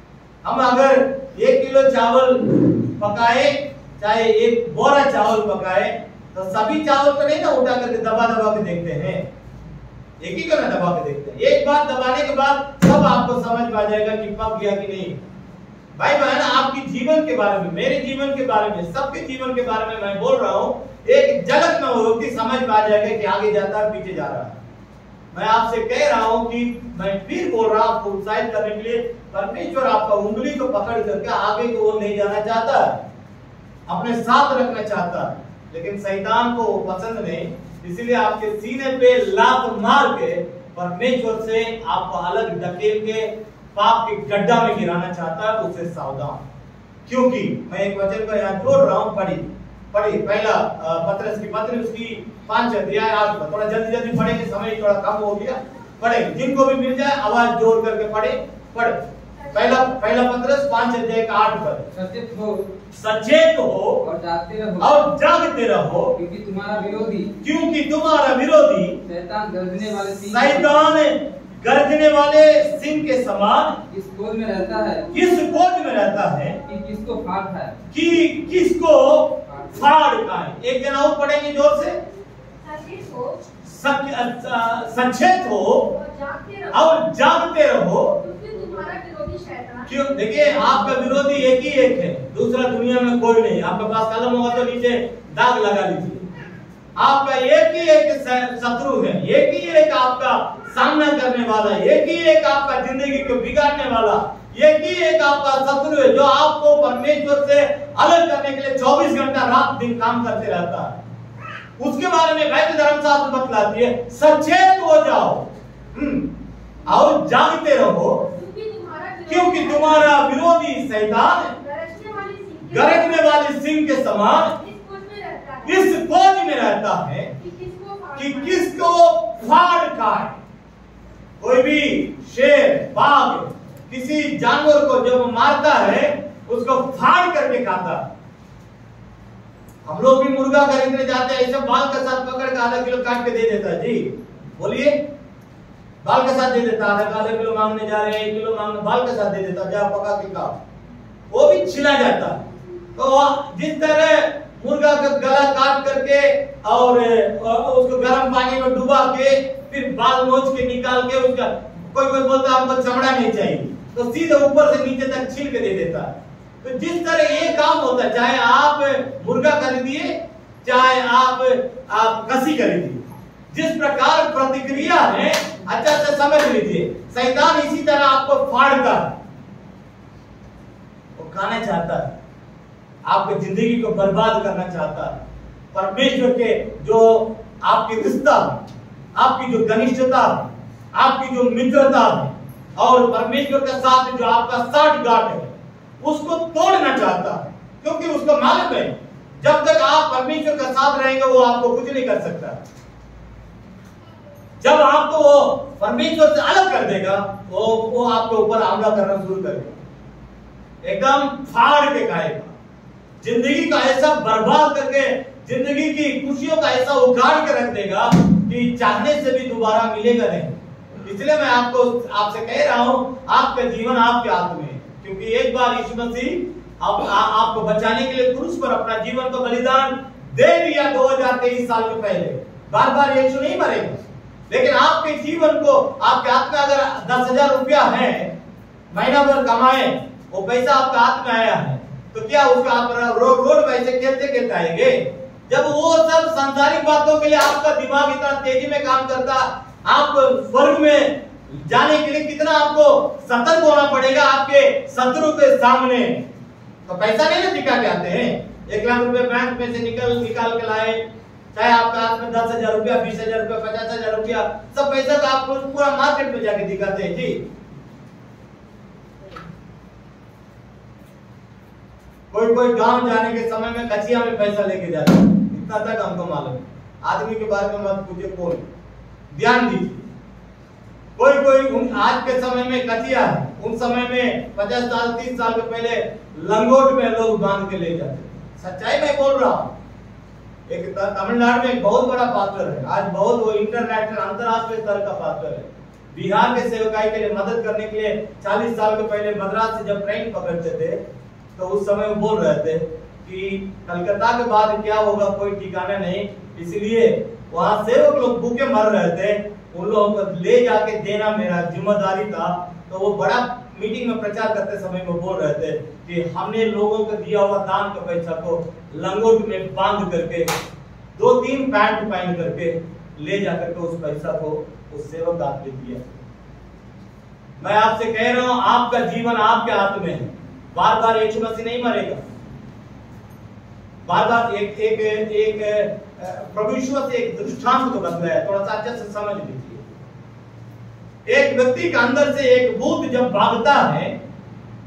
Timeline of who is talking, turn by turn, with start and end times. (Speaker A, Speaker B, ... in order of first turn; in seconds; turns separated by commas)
Speaker A: 0.4-9.2, Speaker A: 10.2-15.2, Speaker A: 15.9-24.6, Speaker A: 25.3-33.0, Speaker A: 33.9-46.4, Speaker A: 47.0-59.0, Speaker A: 59.5-61.9, Speaker B: 61.9-62.6, Speaker A: 62.9-64.0, Speaker B: 64.0-65.0, Speaker A: 64.8-66.1, Speaker B: 66.1-67.3, Speaker A: 67.4-69.0, Speaker B: 69.0-70.9, Speaker A: 70.3-73.8, Speaker B: 73.9-75.0, Speaker A: 75.1-76.6, Speaker B: 76.7-77.7, Speaker A: 77.9-82.0, Speaker C: 82.6-83.4, Speaker A: 83.6-85.9, Speaker C: 85.9-87.0, Speaker A: 86.7-88.2, Speaker C: 88.2-90.0, Speaker A: 89.8-96.2, Speaker A: 97.0-111.0, Speaker A: 111.8-116.3, Speaker A: 116.8-118.2, Speaker C: 118.2-120.1, Speaker A: 119.3-121.5, Speaker C: 121.6-123.4, Speaker A: 122.7-124.5, Speaker C: 124.6-125.9, Speaker A: 125.6-127.3, Speaker C: 127.4-128.7, Speaker A: 128.2-130.4, Speaker A: 131.4-138.1, Speaker A: 139.8-144.9, Speaker A: 146.0-150.6, Speaker A: 151.3-152.4, Speaker A: 152.9-179.1, Speaker A: 181.2-182.1, Speaker A: 183.1-185.2, Speaker A: 185.7-188.6, Speaker A: 189.2-202.6, Speaker A: 204.6-209.8, Speaker A: 210.8-212.5, Speaker A: 213.2-238.3, Speaker A: 238.9-256.2, Speaker A: 256.9-261.0, Speaker A: 261.5-267.4, Speaker A: 272.3-278.6, Speaker A: 279.3-280.1, Speaker A: 281.2-289.8, Speaker A: 290.7-301.0, Speaker A: 301.6-320.5, Speaker A: 321.1-326.1, Speaker A: 327.6-332.2, Speaker A: 334.0-339.9, Speaker A: 341.2-344.1